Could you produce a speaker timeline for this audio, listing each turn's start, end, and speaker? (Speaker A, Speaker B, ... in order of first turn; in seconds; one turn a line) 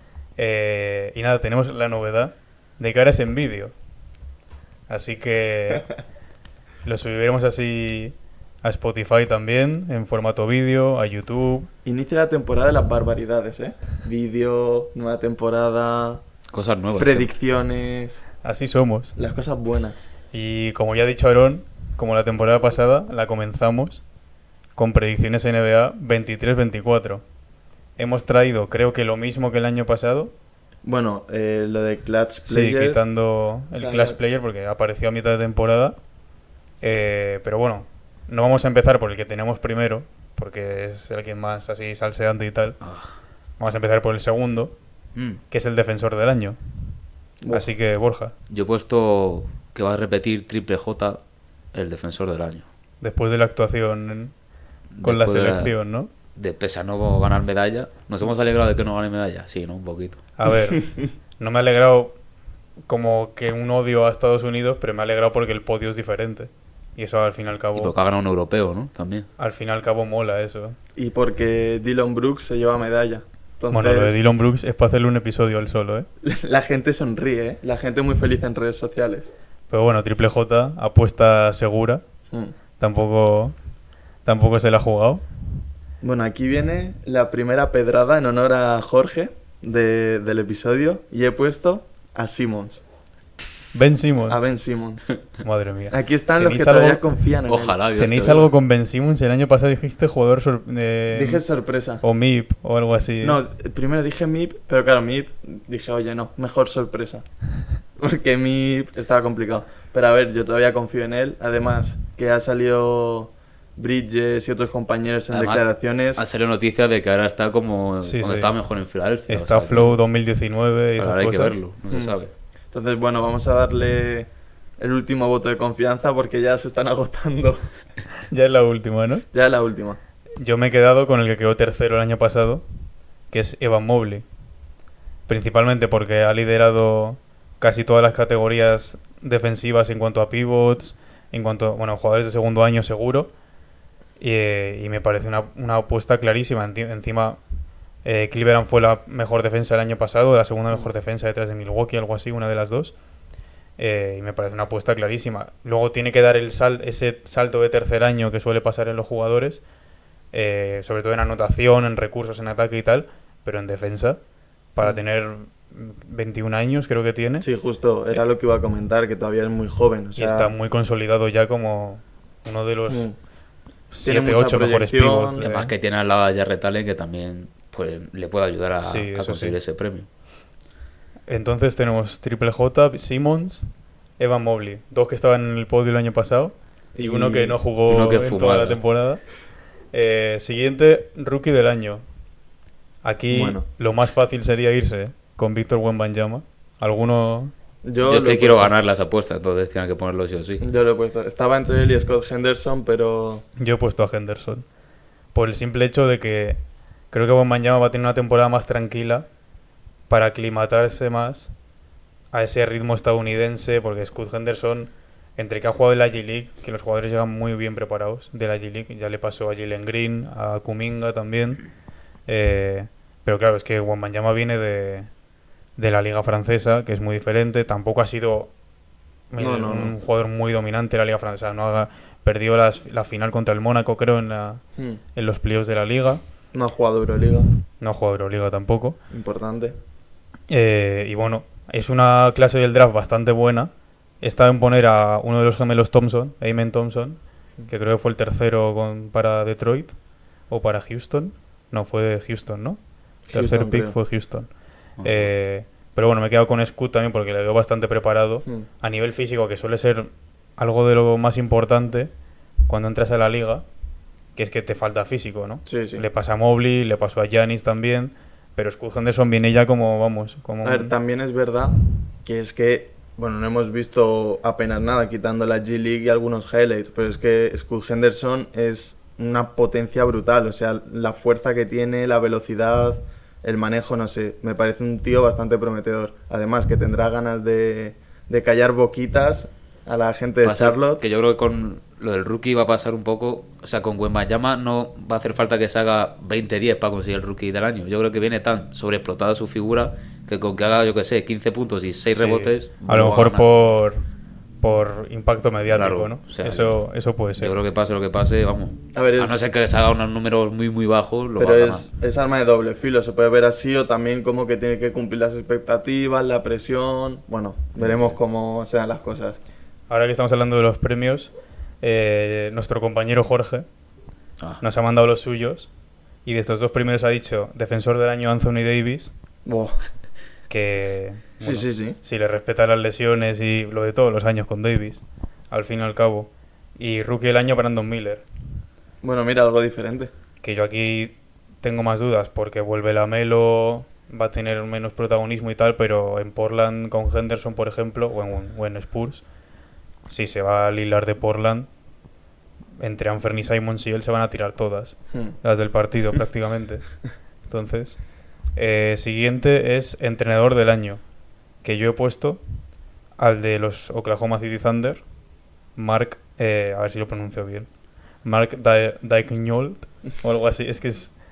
Speaker A: 0.4-3.7
Speaker A: 4.9-5.9
Speaker A: 6.8-11.7
Speaker B: 11.8-16.2
Speaker C: 16.5-17.3
Speaker B: 17.0-18.2
Speaker A: 18.4-19.1
Speaker B: 19.2-20.1
Speaker A: 20.3-24.0
Speaker A: 24.8-27.2
Speaker A: 28.0-30.3
Speaker B: 30.8-33.0
Speaker A: 32.5-36.0
Speaker B: 33.7-34.2
Speaker A: 36.8-42.8
Speaker C: 42.8-43.1
Speaker A: 43.6-44.7
Speaker C: 45.1-45.4
Speaker A: 45.5-46.6
Speaker B: 47.4-47.7
Speaker A: 47.5-48.3
Speaker C: 48.5-51.2
Speaker C: 51.7-52.6
Speaker A: 53.0-54.3
Speaker C: 54.9-55.7
Speaker A: 55.0-56.1
Speaker C: 56.3-60.2
Speaker A: 60.4-60.9
Speaker A: 61.4-62.1
Speaker A: 62.9-67.9
Speaker C: 67.8-69.3
Speaker A: 69.4-70.8
Speaker B: 71.0-74.2
Speaker A: 73.7-76.1
Speaker B: 76.2-79.3
Speaker A: 79.7-82.0
Speaker A: 82.8-83.5
Speaker A: 84.2-85.2
Speaker B: 86.0-92.8
Speaker A: 93.7-94.4
Speaker B: 94.3-95.0
Speaker A: 95.4-97.0
Speaker B: 95.9-97.8
Speaker C: 97.5-98.5
Speaker A: 98.0-101.4
Speaker B: 101.1-102.0
Speaker A: 102.0-103.4
Speaker B: 103.2-107.2
Speaker B: 108.0-116.2
Speaker C: 115.3-119.9
Speaker A: 118.0-118.5
Speaker A: 119.3-121.6
Speaker C: 121.0-122.3
Speaker B: 121.9-122.2
Speaker B: 122.7-127.6
Speaker A: 128.3-129.2
Speaker B: 129.3-130.0
Speaker A: 130.4-132.6
Speaker A: 133.3-134.2
Speaker A: 135.3-143.3
Speaker A: 144.2-147.4
Speaker A: 148.0-152.9
Speaker A: 153.8-159.6
Speaker A: 160.3-164.2
Speaker A: 164.8-167.5
Speaker B: 167.4-170.5
Speaker A: 170.2-173.1
Speaker B: 172.9-173.1
Speaker A: 173.9-175.7
Speaker B: 174.0-175.4
Speaker C: 175.4-180.1
Speaker A: 178.8-179.6
Speaker A: 181.3-183.7
Speaker A: 184.2-189.2
Speaker B: 186.9-187.6
Speaker C: 187.9-188.8
Speaker A: 189.9-192.0
Speaker A: 193.0-197.5
Speaker B: 193.3-193.6
Speaker B: 197.8-198.7
Speaker C: 198.0-200.6
Speaker B: 200.6-203.4
Speaker A: 203.6-204.6
Speaker A: 205.3-206.6
Speaker A: 207.1-209.2
Speaker A: 210.1-211.5
Speaker A: 212.3-221.6
Speaker A: 222.3-225.1
Speaker A: 225.8-228.5
Speaker A: 229.3-234.6
Speaker B: 229.4-229.9
Speaker A: 235.1-236.2
Speaker B: 236.5-237.5
Speaker A: 237.8-239.0
Speaker B: 239.1-239.8
Speaker A: 240.5-249.9
Speaker A: 250.5-252.8
Speaker B: 253.3-253.9
Speaker A: 253.3-254.5
Speaker C: 255.0-255.3
Speaker A: 255.0-262.1
Speaker A: 262.7-263.6
Speaker A: 264.4-270.9
Speaker B: 265.6-266.0
Speaker B: 270.6-291.0
Speaker C: 290.4-303.4
Speaker A: 302.1-304.0
Speaker A: 304.6-307.5
Speaker C: 305.7-306.8
Speaker C: 307.4-311.9
Speaker B: 308.9-309.4
Speaker B: 311.4-319.4
Speaker C: 317.8-318.2
Speaker A: 319.9-323.6
Speaker A: 324.6-325.7
Speaker A: 326.2-329.1
Speaker B: 329.4-329.8
Speaker A: 330.5-338.2
Speaker B: 331.4-332.0
Speaker B: 339.0-340.1
Speaker A: 340.4-349.2
Speaker A: 350.1-351.7
Speaker A: 352.8-356.9
Speaker A: 357.5-358.0
Speaker A: 358.6-361.0
Speaker A: 361.6-362.4
Speaker A: 363.2-365.0
Speaker A: 365.8-367.7
Speaker A: 368.2-371.1